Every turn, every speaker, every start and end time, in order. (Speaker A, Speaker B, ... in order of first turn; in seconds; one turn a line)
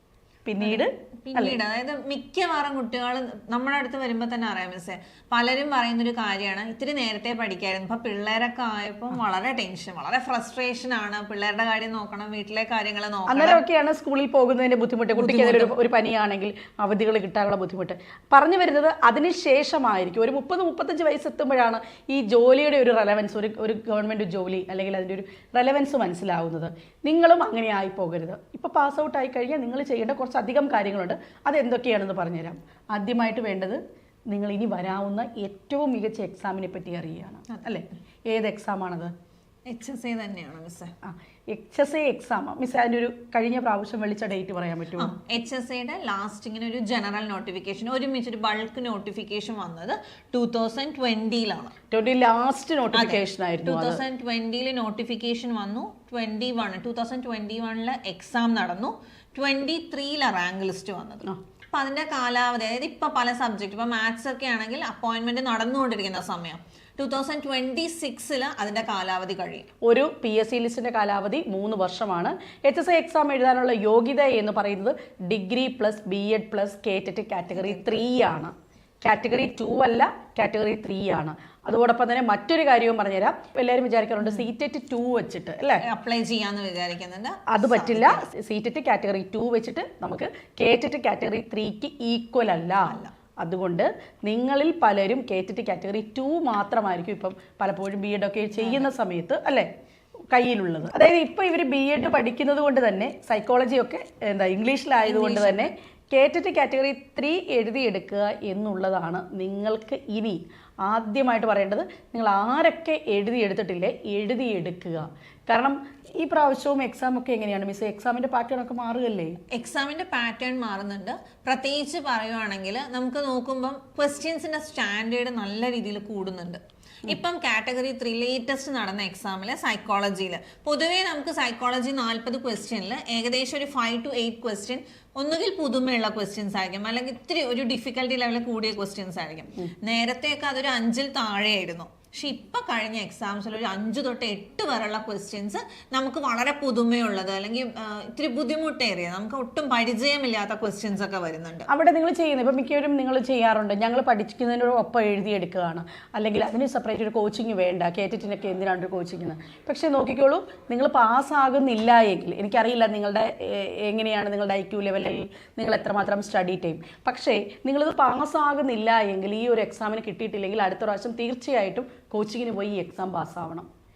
Speaker A: 0.5-1.6
Speaker B: 0.6-13.6
Speaker A: 13.3-39.1
Speaker B: 15.2-15.8
Speaker B: 37.5-37.8
Speaker B: 39.7-40.9
Speaker A: 41.0-45.1
Speaker B: 45.0-51.7
Speaker A: 51.9-54.0
Speaker B: 52.9-69.7
Speaker A: 69.8-78.5
Speaker B: 77.5-77.8
Speaker A: 79.0-85.8
Speaker B: 85.8-88.3
Speaker A: 87.5-99.7
Speaker B: 92.8-93.1
Speaker B: 98.6-98.9
Speaker A: 100.3-119.4
Speaker B: 105.0-105.7
Speaker B: 119.5-151.7
Speaker A: 151.7-173.7